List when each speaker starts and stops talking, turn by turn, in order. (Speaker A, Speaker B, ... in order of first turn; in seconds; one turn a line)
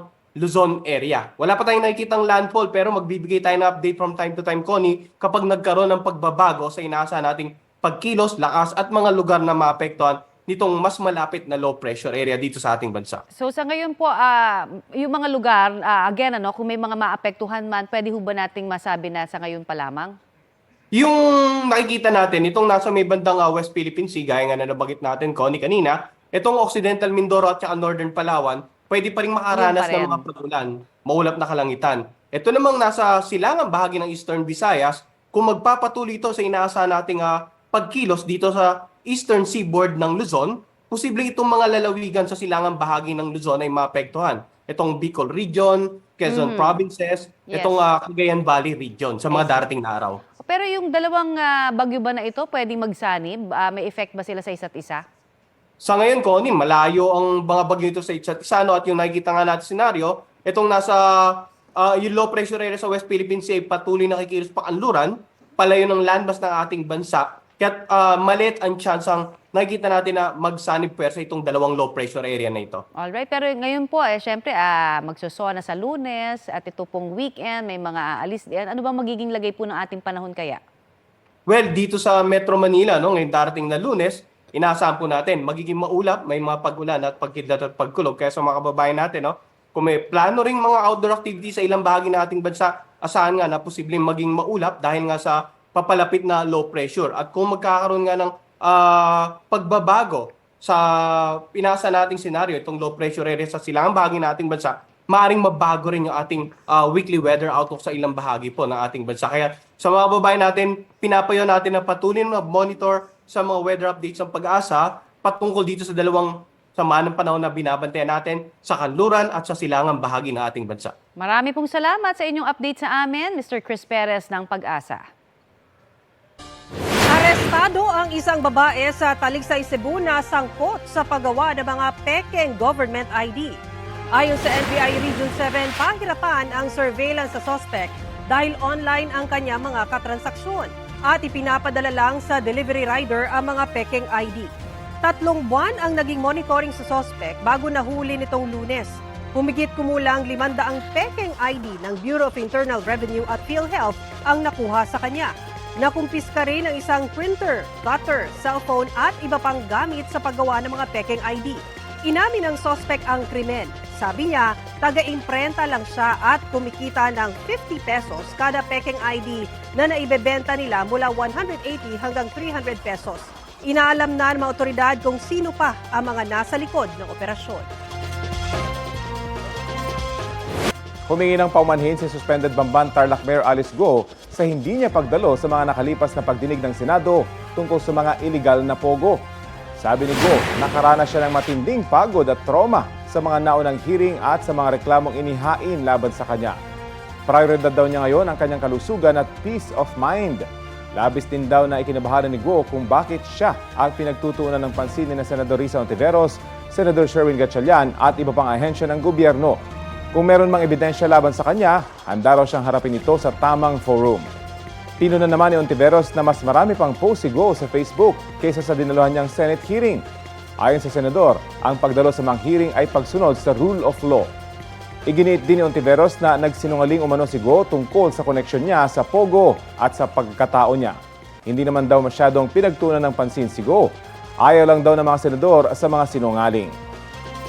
Speaker A: 0.4-13.2
Speaker B: 13.3-20.2
Speaker A: 21.8-50.1
Speaker C: 29.5-30.2
Speaker B: 29.5-30.3
Speaker C: 46.1-46.8
Speaker B: 46.2-46.8
Speaker B: 47.5-47.8
Speaker B: 49.3-49.7
Speaker C: 49.3-49.7
Speaker B: 50.4-55.0
Speaker A: 55.8-60.9
Speaker A: 61.9-65.1
Speaker A: 65.6-72.8
Speaker B: 73.0-80.6
Speaker A: 81.5-100.8
Speaker A: 101.6-116.2
Speaker C: 112.5-112.9
Speaker A: 116.8-120.9
Speaker B: 121.2-125.0
Speaker C: 127.1-133.6
Speaker C: 134.1-144.5
Speaker C: 145.0-177.7
Speaker D: 181.1-189.2
Speaker D: 189.8-196.6
Speaker D: 197.3-200.4
Speaker D: 201.0-209.6
Speaker D: 210.1-214.3
Speaker D: 215.0-220.0
Speaker D: 220.6-224.3
Speaker D: 225.1-233.9
Speaker D: 234.4-236.8